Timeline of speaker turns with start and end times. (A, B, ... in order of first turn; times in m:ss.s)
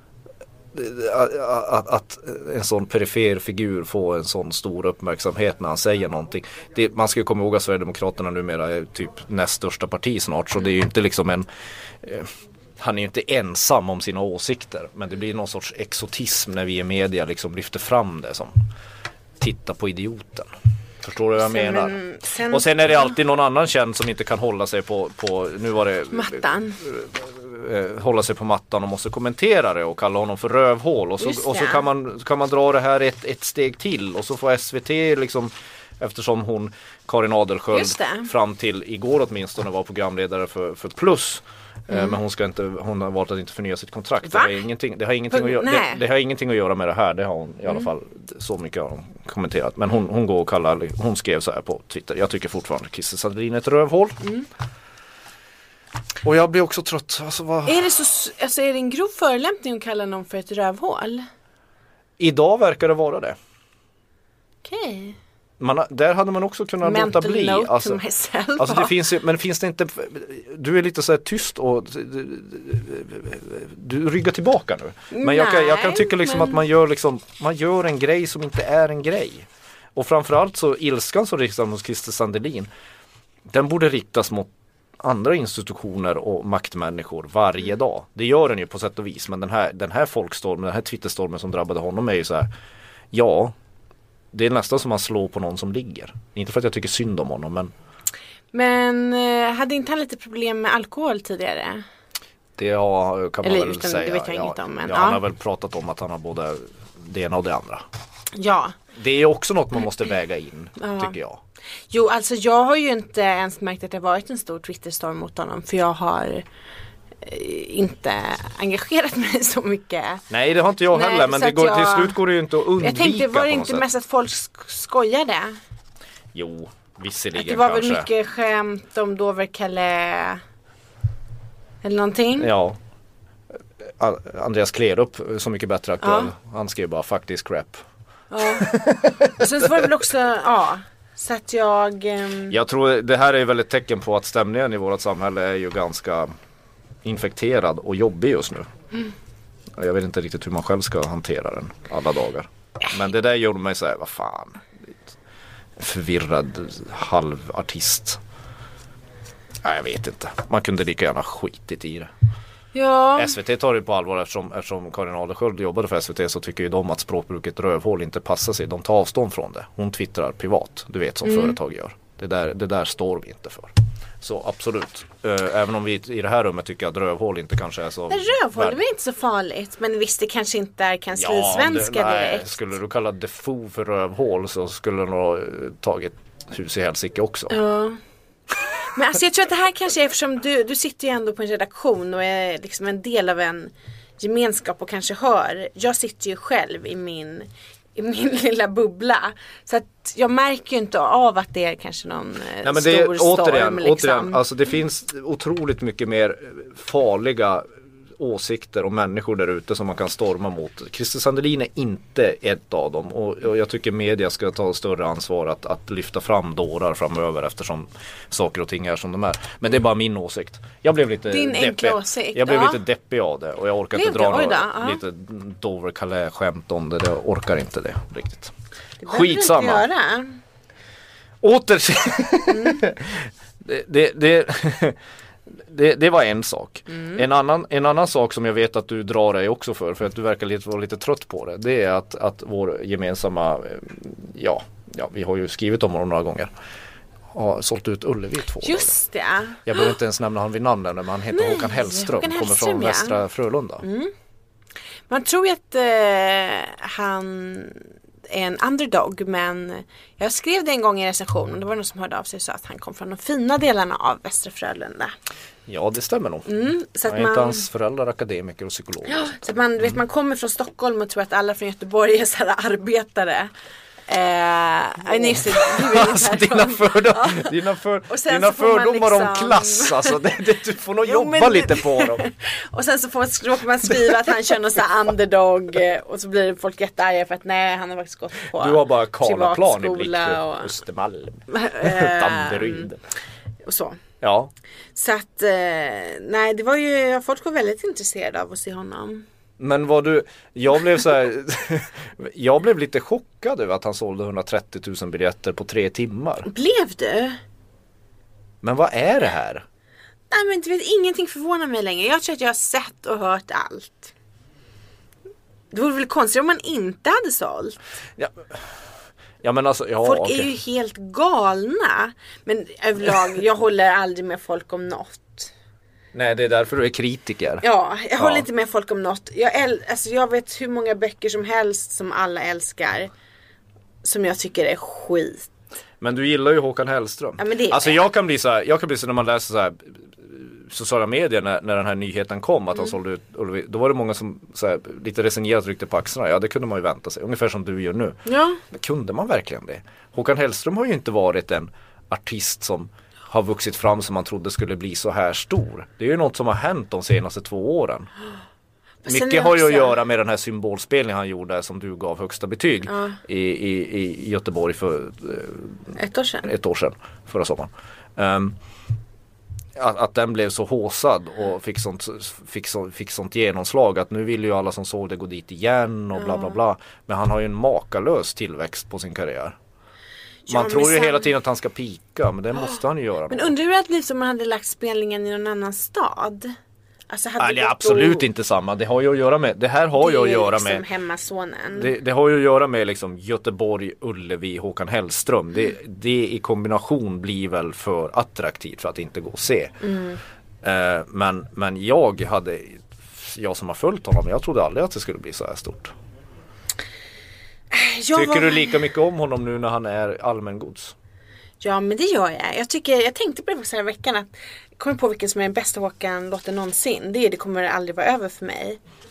0:00.7-0:11.4 A
0:12.0-0:18.6 A
0:19.4-0:22.0 A
0:21.4-0:23.1 B
0:22.5-0:54.2 A
0:26.1-0:26.8 B
0:31.2-0:31.8 B
0:37.7-0:38.3 B
0:44.3-0:44.6 B
0:45.3-0:46.0 B
0:56.2-0:57.9 A
0:57.7-1:01.3 B
1:02.2-1:03.4 A
1:04.6-1:05.2 B
1:05.6-1:08.0 A
1:06.8-1:08.9 B
1:08.6-1:22.7 A
1:15.1-1:16.6 B
1:23.5-1:32.5 A
1:33.1-1:33.6 A
1:34.3-1:37.7 A
1:38.5-1:41.8 B
1:42.6-1:47.8 A
1:43.4-1:45.2 B
1:48.3-1:48.8 B
1:48.9-1:51.4 A
1:50.8-1:51.1 B
1:51.9-1:56.4 B
1:57.2-2:00.2 B
2:00.3-2:03.8 A
2:00.9-2:02.2 B
2:02.8-2:05.6 B
2:06.3-2:08.1 A
2:07.4-2:10.4 B
2:11.8-2:12.5 B
2:12.4-2:12.8 A
2:13.8-2:17.8 A
2:16.0-2:16.3 B
2:18.3-2:22.6 B
2:18.6-2:19.9 A
2:22.5-2:26.3 A
2:27.0-2:28.7 A
2:29.8-2:34.6 A
2:35.8-2:38.2 A
2:39.6-2:42.1 A
2:42.7-2:43.4 B
2:43.1-2:58.8 A
2:51.2-2:51.6 B
2:58.1-3:02.6 B
3:01.1-3:07.6 A
3:07.5-3:08.0 B
3:08.9-3:24.4 B
3:22.6-3:48.5 A
3:41.3-3:42.8 B
3:43.9-3:45.0 B
3:49.0-3:50.4 B
3:49.1-3:49.9 A
3:51.4-3:55.0 A
3:52.5-3:52.8 B
3:55.6-4:06.5 A
3:56.9-3:57.2 B
4:07.3-4:09.0 A
4:08.6-4:09.8 B
4:09.6-4:13.8 A
4:11.3-4:13.2 B
4:13.8-4:14.1 B
4:15.1-4:25.1 B
4:25.7-4:26.5 A
4:26.4-4:27.7 B
4:27.1-4:29.9 A
4:29.1-4:33.5 B
4:34.1-4:37.5 B
4:35.2-4:42.2 A
4:38.1-4:40.2 B
4:41.0-4:50.7 B
4:43.9-4:44.1 A
4:48.5-4:53.0 A
4:51.5-4:52.9 B
4:53.6-4:54.0 B
4:54.2-4:54.5 A
4:55.0-4:59.3 B
4:59.6-5:06.5 A
5:06.4-5:07.4 B
5:08.6-5:09.6 A
5:10.3-5:14.1 B
5:15.7-5:17.8 B
5:18.2-5:18.6 A
5:19.4-5:20.5 A
5:20.0-5:25.5 B
5:26.1-5:27.6 A
5:27.6-5:33.1 B
5:28.2-5:28.5 A
5:34.0-5:35.5 B
5:36.0-5:58.1 A
5:37.4-5:38.1 B
5:48.3-5:48.6 B
5:59.0-6:00.0 B
5:59.1-6:08.6 A
6:02.9-6:03.2 B
6:06.0-6:06.5 B
6:09.8-6:19.6 A
6:16.2-6:16.6 B
6:20.5-6:21.3 B
6:20.5-6:23.5 A
6:23.3-6:26.5 B
6:27.1-6:28.3 B
6:27.4-6:30.8 A
6:30.0-6:31.9 B
6:31.7-6:39.8 A
6:39.8-6:40.2 B
6:40.6-6:46.0 A
6:47.7-6:48.8 B
6:48.1-6:51.0 A
6:51.6-6:58.8 B